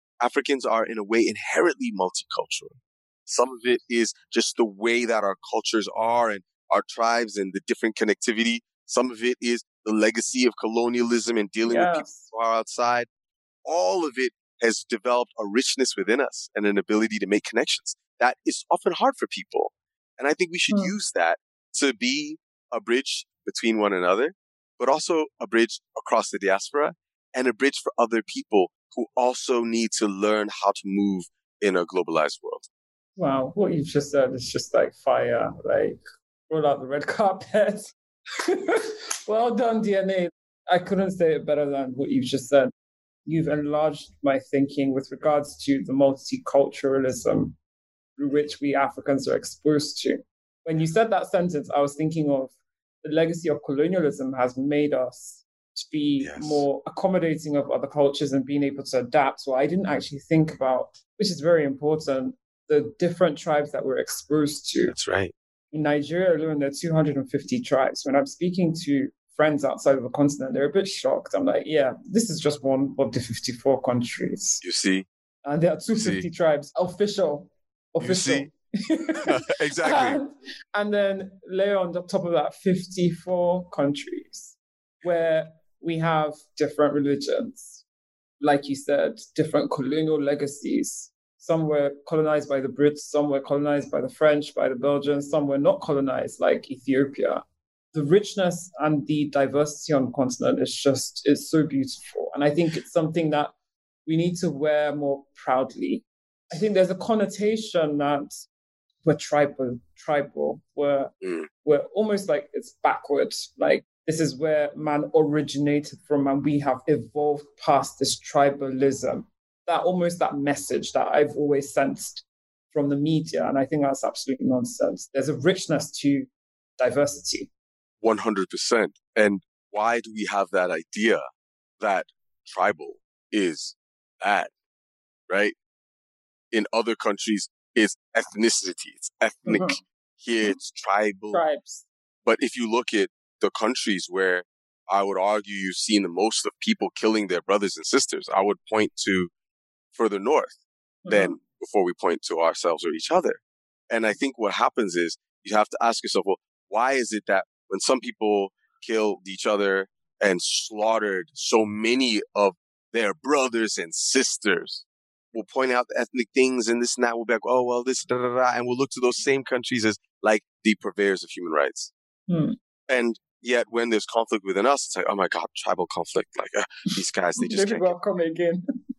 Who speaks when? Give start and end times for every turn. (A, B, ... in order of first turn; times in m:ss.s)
0:00.2-0:02.8 A
0:03.3-0:13.1 A
0:11.6-0:12.2 B
0:13.6-0:32.6 A
0:20.7-0:20.9 B
0:33.2-0:37.9 B
0:38.5-0:42.7 B
0:43.2-0:47.6 B
0:48.2-1:05.0 B
0:56.2-0:56.6 A
1:04.9-1:05.3 A
1:05.7-1:14.6 B
1:14.6-1:15.1 A
1:15.4-1:27.8 B
1:15.9-1:16.2 A
1:18.0-1:18.5 A
1:19.2-1:20.2 A
1:28.4-1:43.5 B
1:44.0-1:48.3 B
1:49.0-2:07.5 B
1:51.2-1:51.5 A
2:08.0-2:11.2 A
2:11.8-2:14.5 A
2:15.3-2:15.5 A
2:16.5-2:21.4 A
2:19.4-2:19.8 B
2:21.3-2:21.8 B
2:22.2-2:29.3 A
2:29.9-2:30.6 A
2:31.0-2:31.4 B
2:31.1-2:51.9 A
2:52.3-2:52.6 B
2:52.9-2:58.0 A
2:57.4-2:58.6 B